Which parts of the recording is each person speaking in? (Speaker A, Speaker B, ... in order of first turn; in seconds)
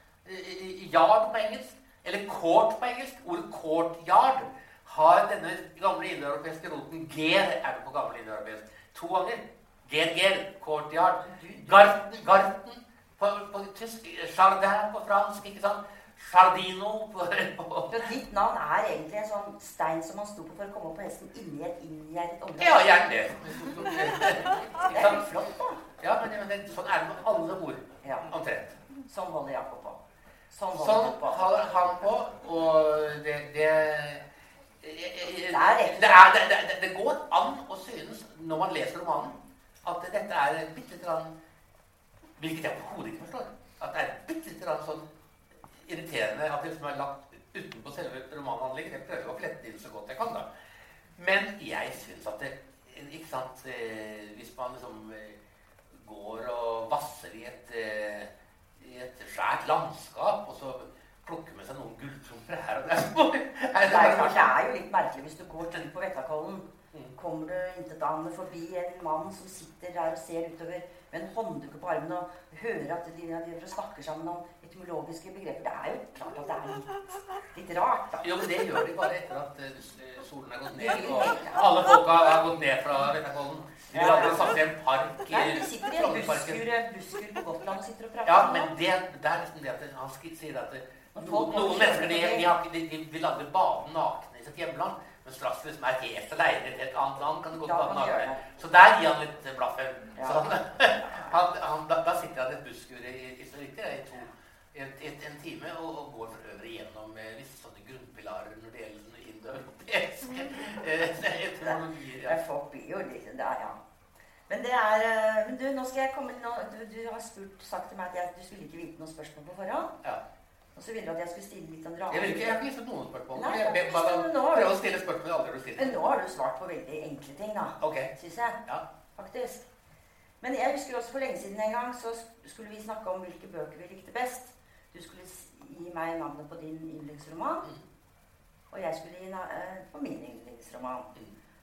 Speaker A: 0.2-18.1, 22.6-28.8, 30.7-34.2, 34.8-41.3, 42.4-45.0, 45.8-50.5, 51.2-55.4, 55.9-64.5, 78.2-86.7, 88.3-112.4, 122.1-126.0, 127.8-128.1
Speaker B: 11.2-11.9, 17.9-23.4, 24.8-25.8, 28.0-28.3, 29.0-30.0, 30.5-31.5, 35.5-36.3, 63.9-78.4, 80.8-81.8, 83.9-84.6, 85.3-88.7, 91.2-92.5, 97.6-98.5, 100.2-101.4, 111.6-113.8, 114.5-119.9, 120.8-122.6, 123.3-124.7, 125.8-128.6, 129.2-129.7, 130.4-137.7, 138.7-141.1